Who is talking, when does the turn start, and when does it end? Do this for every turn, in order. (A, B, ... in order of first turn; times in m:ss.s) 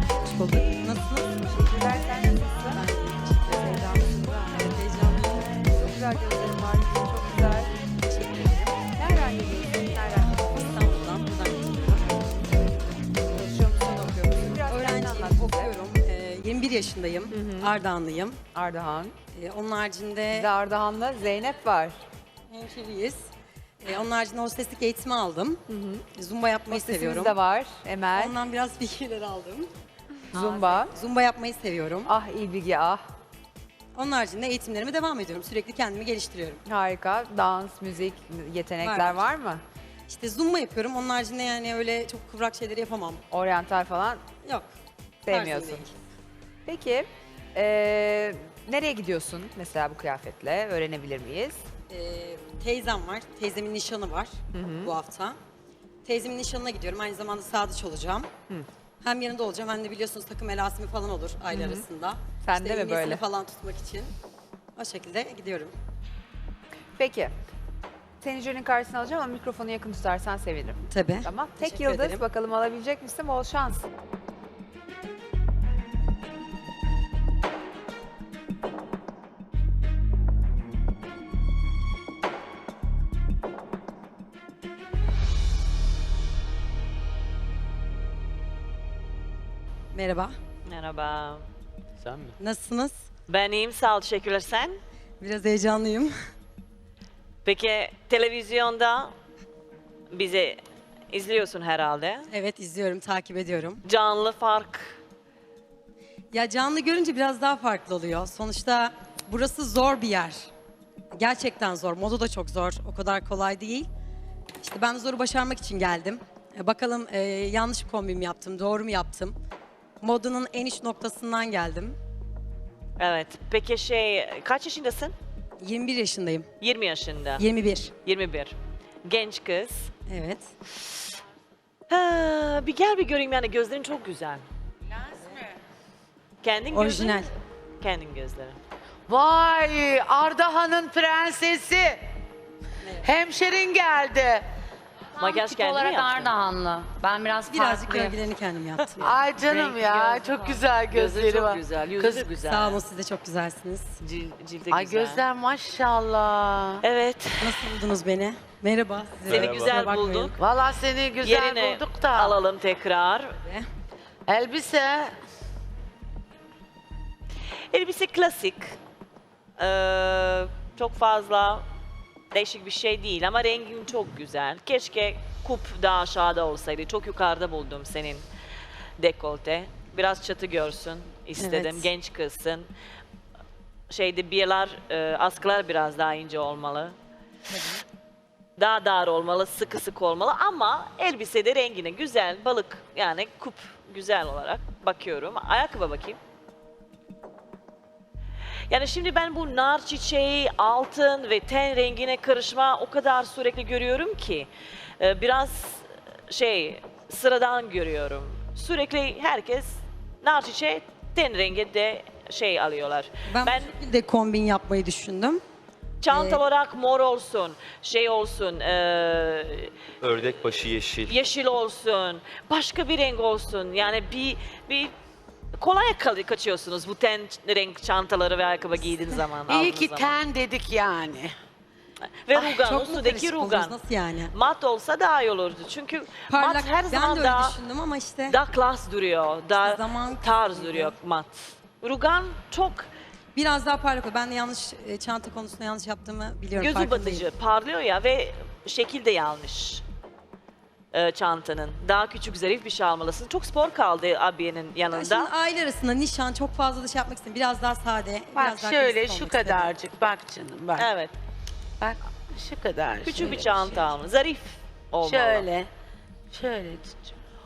0:00.2-0:01.3 A
0:01.4-0:02.8 B
0:02.6-0:05.6 A
0:03.5-0:03.8 B
0:05.6-0:10.4 B
0:08.1-0:08.4 A
0:10.4-0:12.5 A
0:12.8-0:15.7 B
0:14.6-0:18.4 A
0:18.5-0:19.1 B
0:19.3-0:20.5 A
0:20.3-0:22.0 B
0:22.5-0:23.3 A
0:23.8-0:27.4 A
0:26.7-0:28.4 B
0:28.1-0:29.7 A
0:30.3-0:31.0 B
0:30.3-0:32.1 A
0:32.0-0:33.0 B
0:33.9-0:36.6 A
0:36.6-0:39.6 B
0:38.8-0:39.2 A
0:40.1-0:43.2 A
0:43.3-0:44.2 B
0:45.2-0:45.8 B
0:45.3-0:45.9 A
0:46.6-0:51.6 B
0:51.9-0:55.4 A
0:54.5-0:54.9 C
0:56.0-0:58.3 A
0:59.0-1:04.1 A
1:02.4-1:03.2 B
1:04.8-1:05.7 A
1:07.0-1:07.3 B
1:08.2-1:13.9 B
1:10.9-1:12.2 A
1:29.9-1:30.4 A
1:30.6-1:31.4 C
1:32.0-1:32.3 D
1:32.4-1:33.0 A
1:33.3-1:34.8 C
1:35.2-1:36.1 A
1:37.4-1:39.1 C
1:40.1-1:42.3 C
1:42.3-1:43.8 A
1:43.8-1:45.0 C
1:46.3-1:50.5 A
1:51.1-1:53.9 A
1:54.6-1:59.3 A
2:00.0-2:02.0 A
2:03.0-2:05.1 C
2:05.6-2:06.5 A
2:06.6-2:07.4 C
2:07.4-2:08.0 A
2:08.0-2:09.9 C
2:10.1-2:10.5 A
2:11.9-2:14.4 C
2:15.0-2:15.3 E
2:16.4-2:17.3 C
2:16.7-2:17.3 A
2:17.8-2:18.6 C
2:19.1-2:22.0 E
2:22.8-2:23.1 A
2:23.0-2:24.4 E
2:25.2-2:26.3 C
2:25.2-2:28.1 F
2:27.5-2:29.2 A
2:29.0-2:32.4 E
2:29.4-2:32.8 C
2:32.4-2:33.9 A
2:34.0-2:35.2 C
2:34.7-2:36.8 E
2:36.8-2:37.7 C
2:37.4-2:40.3 A
2:39.3-2:39.8 D
2:39.3-2:40.4 C
2:40.4-2:42.4 E
2:41.2-2:43.3 C
2:44.3-2:45.1 E
2:47.7-2:48.8 C
2:49.6-2:51.6 C
2:52.3-2:58.2 C
2:59.0-3:02.7 C
3:01.4-3:01.9 A
3:03.9-3:06.9 C
3:07.5-3:07.8 A
3:08.6-3:16.2 C
3:18.7-3:24.5 C
3:25.0-3:33.7 C
3:33.3-3:35.4 A
3:36.0-3:39.7 C
3:36.1-3:36.4 A
3:40.0-3:41.2 D
3:41.0-3:44.9 C
3:45.6-3:50.2 C
3:49.5-3:51.3 E
3:52.2-3:53.8 C
3:52.3-3:54.3 A
3:54.3-3:57.5 C
3:56.3-3:58.4 A
3:58.3-4:02.9 C
3:59.6-4:01.0 A
4:03.3-4:07.2 A
4:06.6-4:09.8 C
4:10.9-4:15.3 C
4:14.9-4:19.7 A
4:18.3-4:20.9 E
4:20.8-4:21.1 C
4:21.8-4:23.9 E
4:23.0-4:25.5 C
4:25.0-4:25.7 E
4:26.3-4:27.1 E